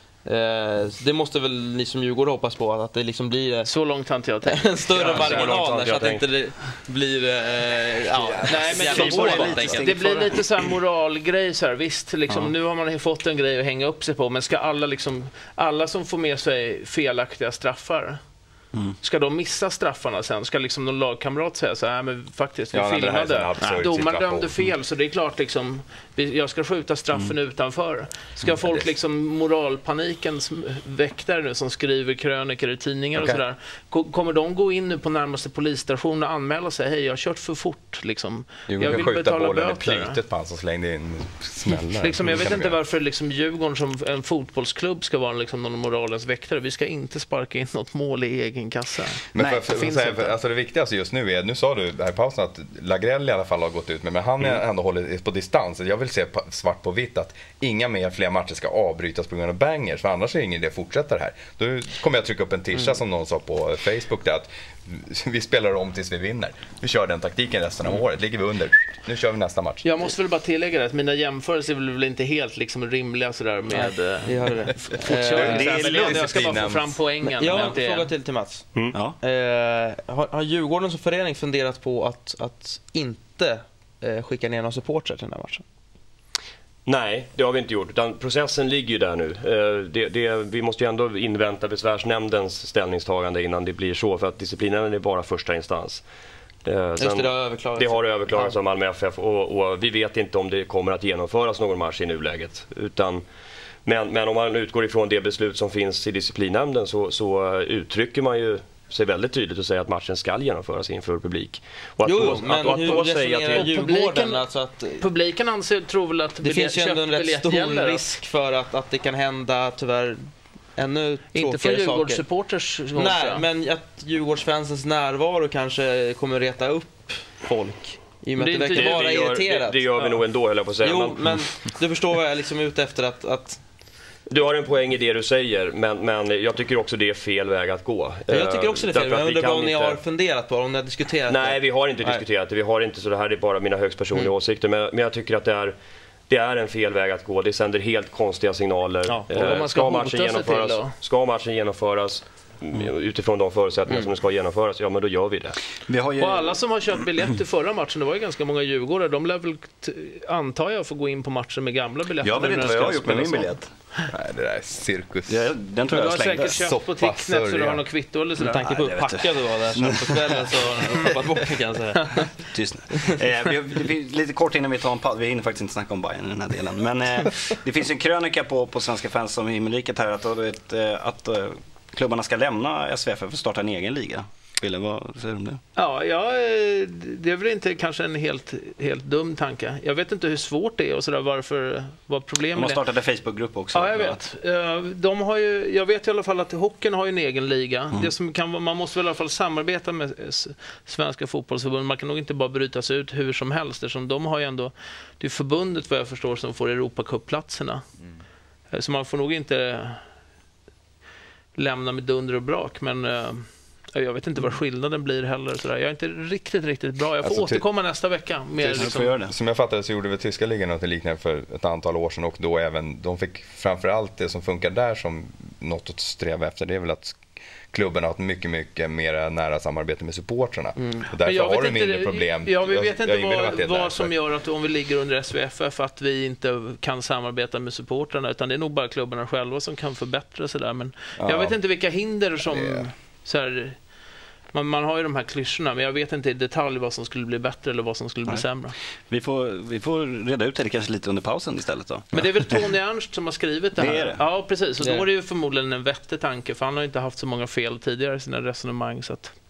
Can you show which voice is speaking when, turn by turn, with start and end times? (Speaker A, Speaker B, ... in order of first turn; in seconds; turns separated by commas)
Speaker A: 0.2-3.7, Speaker B: 3.6-5.6, Speaker A: 4.5-10.4, Speaker C: 5.0-6.3, Speaker B: 8.4-18.2, Speaker D: 8.9-9.7, Speaker B: 19.0-40.2, Speaker E: 22.7-24.6, Speaker E: 28.4-28.9, Speaker E: 33.2-33.4, Speaker E: 38.7-42.8, Speaker B: 42.0-50.3, Speaker E: 49.3-69.9, Speaker B: 69.8-78.1, Speaker A: 73.7-76.3, Speaker E: 75.1-77.0, Speaker A: 77.2-78.7, Speaker A: 79.2-85.6, Speaker C: 86.9-96.0, Speaker C: 96.7-103.2, Speaker A: 97.0-98.6, Speaker C: 103.9-113.7, Speaker A: 112.0-115.1, Speaker B: 113.5-118.2, Speaker A: 116.4-122.3, Speaker B: 121.3-123.5, Speaker A: 122.9-133.6, Speaker B: 128.5-129.0, Speaker C: 128.5-131.4, Speaker C: 134.3-140.0, Speaker A: 138.3-142.2, Speaker C: 141.3-145.7, Speaker C: 146.3-155.6, Speaker A: 149.1-149.6, Speaker B: 149.3-150.9, Speaker D: 155.9-157.3, Speaker B: 156.2-164.1, Speaker D: 162.2-163.7, Speaker E: 164.1-165.5, Speaker D: 165.3-166.6, Speaker B: 165.9-168.7, Speaker E: 166.4-167.8, Speaker A: 168.4-172.3, Speaker D: 168.6-170.9, Speaker D: 172.5-185.6, Speaker B: 185.8-192.8, Speaker D: 192.5-194.2, Speaker B: 193.7-207.8, Speaker B: 208.7-210.0, Speaker B: 211.6-219.2, Speaker E: 217.2-217.7, Speaker E: 218.6-227.2, Speaker D: 218.8-219.3, Speaker E: 227.7-234.1, Speaker B: 231.1-243.8, Speaker E: 241.2-241.6, Speaker E: 242.4-242.9, Speaker B: 244.5-248.8, Speaker D: 249.1-252.6, Speaker B: 252.1-259.3, Speaker D: 253.8-254.2